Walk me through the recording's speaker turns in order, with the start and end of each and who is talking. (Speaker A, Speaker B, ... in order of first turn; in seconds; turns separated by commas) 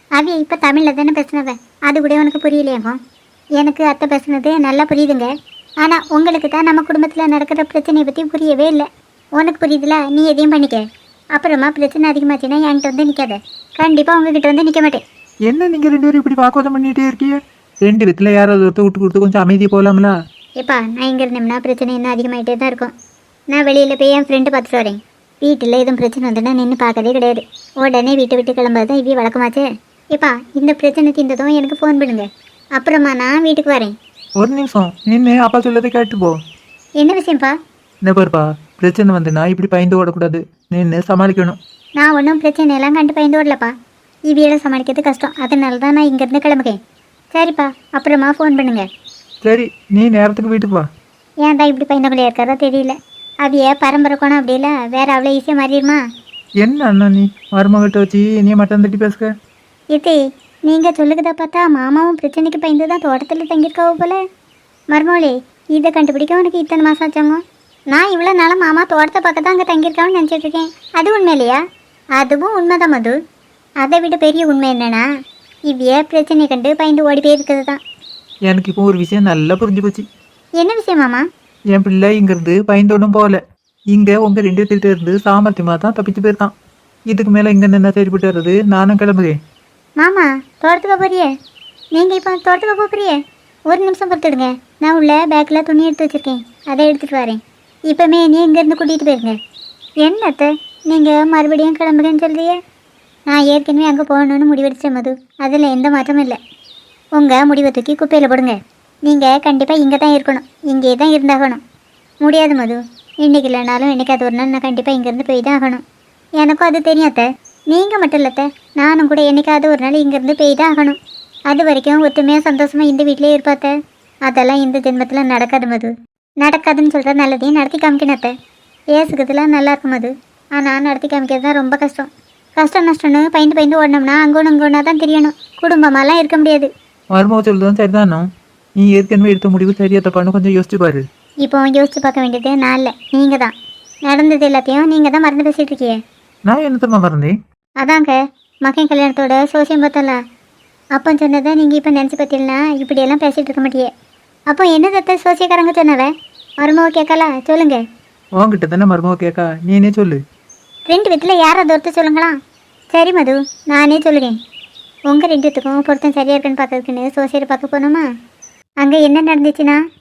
Speaker A: 0.2-3.0, Speaker A: 3.6-5.3, Speaker A: 5.8-8.9, Speaker A: 9.4-10.8, Speaker A: 11.3-15.0, Speaker B: 15.5-20.1, Speaker A: 20.6-22.9, Speaker A: 23.5-32.2, Speaker A: 32.8-33.9, Speaker B: 34.4-36.4, Speaker A: 37.0-37.5, Speaker B: 38.0-41.6, Speaker A: 42.0-43.7, Speaker A: 44.3-46.8, Speaker A: 47.3-48.9, Speaker B: 49.4-50.8, Speaker A: 51.4-56.0, Speaker B: 56.6-59.3, Speaker A: 59.9-64.2, Speaker A: 64.9-67.4, Speaker A: 67.9-71.6, Speaker A: 72.2-73.2, Speaker A: 73.8-75.0, Speaker A: 75.7-77.8, Speaker B: 78.5-80.0, Speaker A: 80.6-81.2, Speaker B: 81.7-83.4, Speaker B: 83.9-86.5, Speaker B: 87.1-89.3, Speaker A: 90.0-91.3, Speaker A: 92.0-93.2, Speaker A: 93.7-99.4, Speaker A: 100.0-102.6, Speaker A: 103.3-106.4, Speaker A: 107.2-111.6, Speaker A: 112.2-115.8, Speaker A: 116.4-121.0, Speaker A: 121.5-123.7, Speaker A: 124.3-128.3, Speaker A: 128.9-136.7, Speaker B: 137.1-138.3, Speaker B: 138.8-141.0, Speaker A: 141.4-143.5, Speaker A: 144.1-146.0, Speaker B: 146.5-147.3, Speaker A: 147.8-150.2, Speaker A: 151.0-153.9, Speaker A: 154.5-156.1, Speaker A: 156.6-157.8, Speaker B: 158.4-160.2, Speaker A: 160.9-162.3, Speaker A: 162.9-164.4, Speaker A: 165.1-168.1, Speaker A: 168.8-169.8